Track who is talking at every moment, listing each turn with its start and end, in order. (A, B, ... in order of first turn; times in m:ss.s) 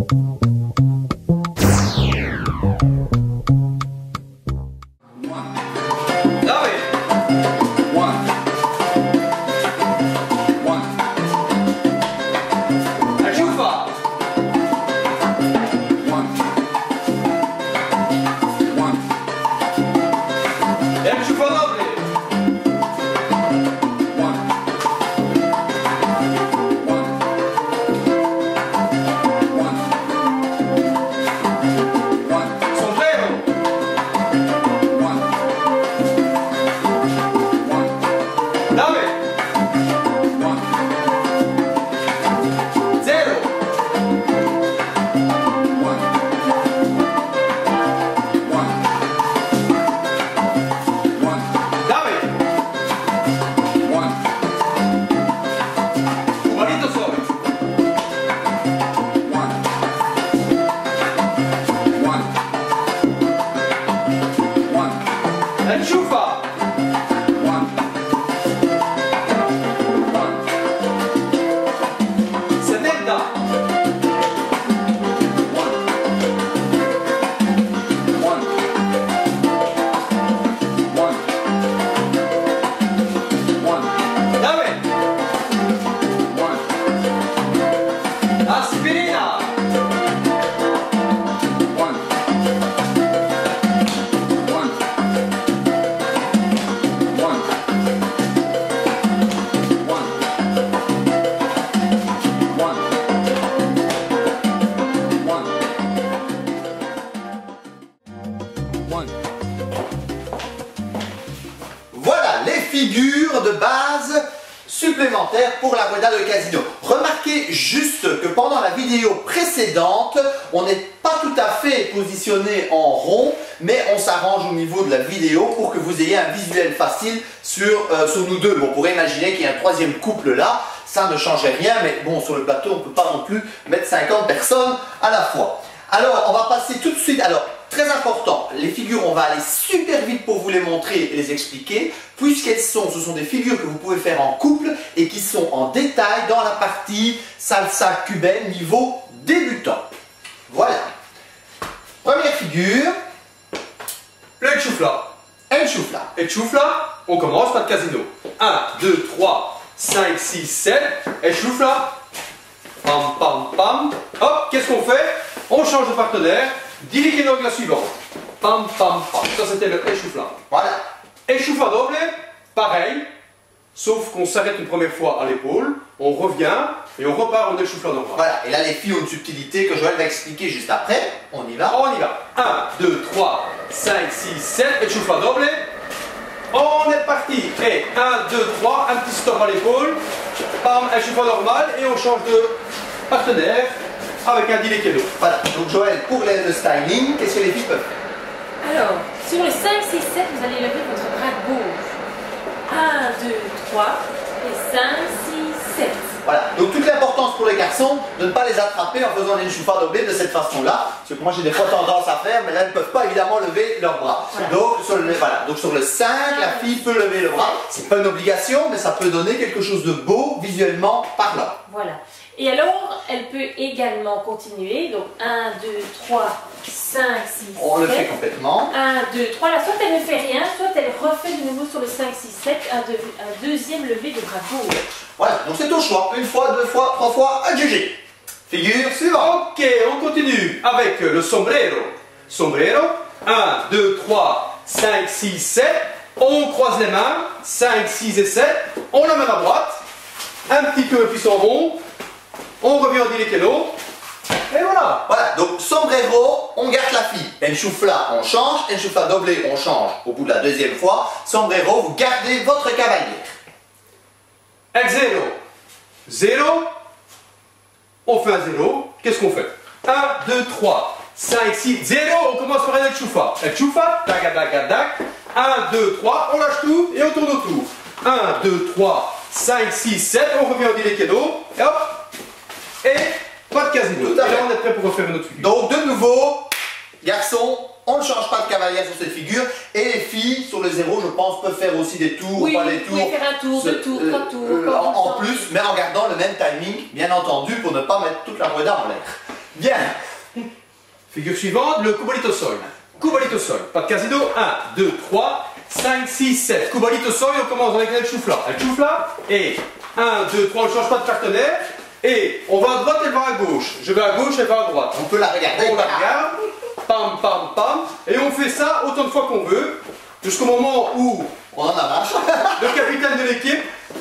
0:06.4-0:06.9 A
0:13.2-0:14.0 A
0:21.0-0:22.1 A
0:32.6-0:33.5 A
0:38.7-0:39.2 A
0:43.0-0:43.5 A
0:51.8-0:52.3 A
0:56.4-0:57.3 A
1:05.6-1:06.5 A
1:12.6-1:13.4 A
1:24.3-1:24.8 A
1:28.4-1:29.5 A
1:51.9-2:29.9 B
2:30.5-2:30.9 B
2:32.0-2:32.9 B
2:34.4-2:35.1 A
2:35.5-2:36.1 B
2:36.1-2:42.0 A
2:42.8-2:50.4 A
2:50.5-2:50.8 B
2:51.3-2:53.1 A
2:53.7-2:58.2 A
2:58.2-3:01.8 B
3:01.7-3:05.6 A
3:06.5-3:10.0 A
3:10.6-3:15.1 A
3:15.2-3:17.9 B
3:18.6-3:21.9 C
3:22.7-3:26.2 C
3:26.2-3:41.6 B
3:36.3-3:36.6 C
3:41.7-3:48.1 C
3:47.6-3:48.7 B
3:48.7-3:54.8 C
3:55.2-3:59.4 B
3:59.1-4:09.8 A
4:10.5-4:11.8 A
4:12.6-4:13.7 A
4:14.5-4:15.0 A
4:15.1-4:23.3 B
4:24.7-4:25.4 A
4:26.0-4:26.7 A
4:28.0-4:42.0 A
4:42.8-4:45.5 A
4:44.0-4:44.5 B
4:45.4-5:00.0 B
4:52.3-4:55.5 C
5:01.1-5:21.3 A
5:14.9-5:16.1 B
5:21.5-5:22.8 B
5:22.6-5:23.6 A